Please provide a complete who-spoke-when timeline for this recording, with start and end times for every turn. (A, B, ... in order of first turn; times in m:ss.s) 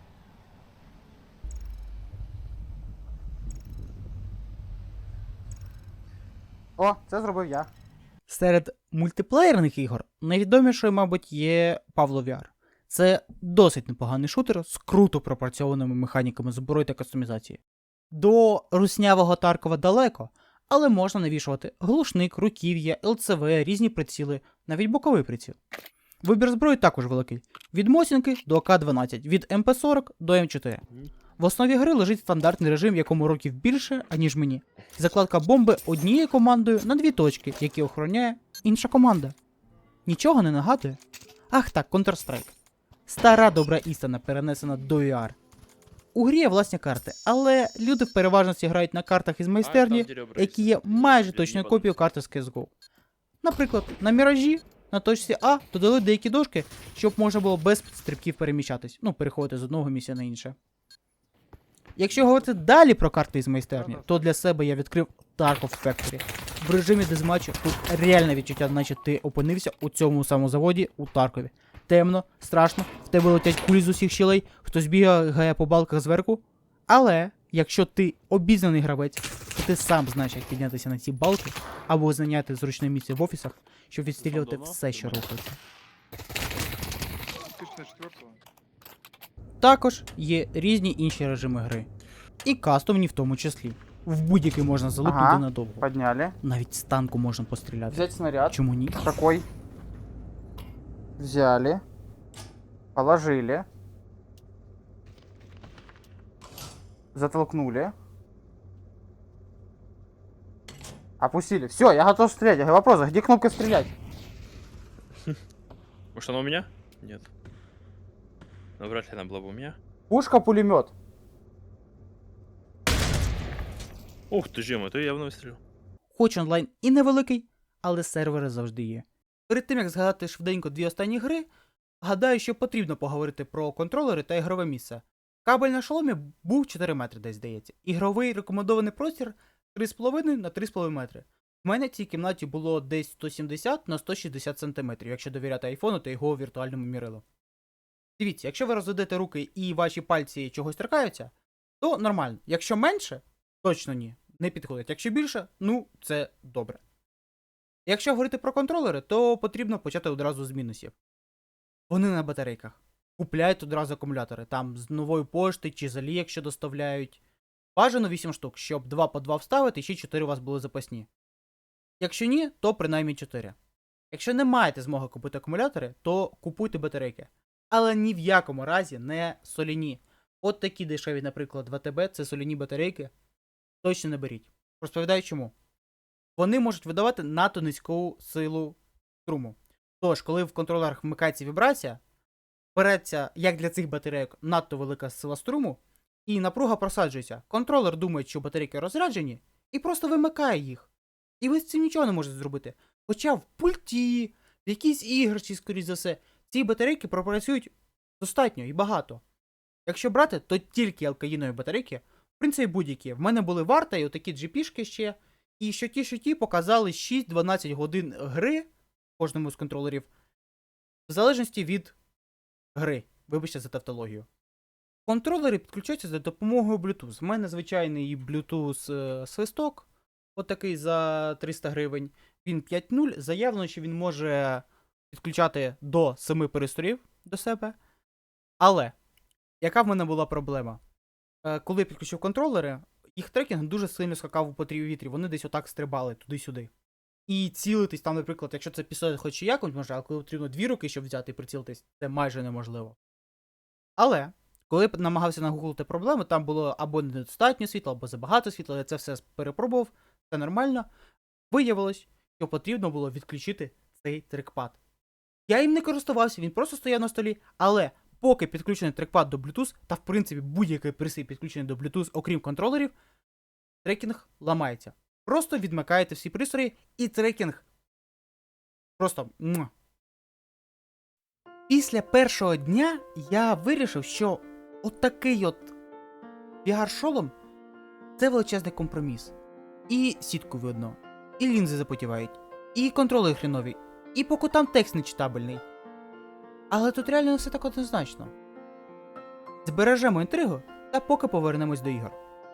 0:06.8-0:07.6 A
0:06.8-0:07.7 B
0:08.3-0:25.6 B
0:26.2-0:30.8 B
0:31.4-0:39.3 B
0:40.0-0:41.0 B
0:41.5-0:42.5 B
0:43.1-0:45.4 B
0:46.1-0:52.7 B
0:49.6-0:52.0 C
0:53.4-1:00.6 B
1:02.0-1:25.6 B
1:24.3-1:25.2 C
1:27.6-1:28.3 A
1:29.6-1:31.9 B
1:32.4-1:35.8 B
1:35.0-1:36.4 A
1:36.4-1:39.0 B
1:37.9-1:39.4 A
1:41.2-1:41.8 A
1:43.0-1:43.6 A
1:47.1-1:47.9 A
1:47.3-1:47.9 B
1:51.2-1:53.9 B
1:56.1-1:57.3 C
1:58.8-1:59.8 C
2:00.1-2:00.9 B
2:04.3-2:05.6 C
2:06.2-2:11.5 B
2:12.0-2:27.2 B
2:28.2-2:36.8 B
2:37.8-2:40.9 B
2:41.9-2:47.2 B
2:47.8-2:51.1 B
2:52.0-2:53.5 B
2:54.1-3:03.1 B
3:03.8-3:05.5 B
3:06.4-3:12.0 B
3:12.7-3:20.9 B
3:21.4-3:29.2 B
3:29.9-3:38.6 B
3:39.2-3:40.1 B
3:41.1-3:42.0 B
3:42.7-3:44.3 B
3:45.0-3:57.8 B
3:58.6-3:58.9 B
3:59.6-4:00.8 B
4:01.4-4:06.7 B
4:07.3-4:13.0 B
4:14.0-4:20.9 B
4:21.5-4:24.8 B
4:25.5-4:32.9 B
4:33.8-4:37.6 B
4:39.0-4:39.7 B
4:41.7-4:45.7 B
4:46.6-4:47.3 B
4:48.2-4:49.3 B
4:49.9-4:55.6 B
4:56.7-4:58.3 B
4:59.6-5:02.2 B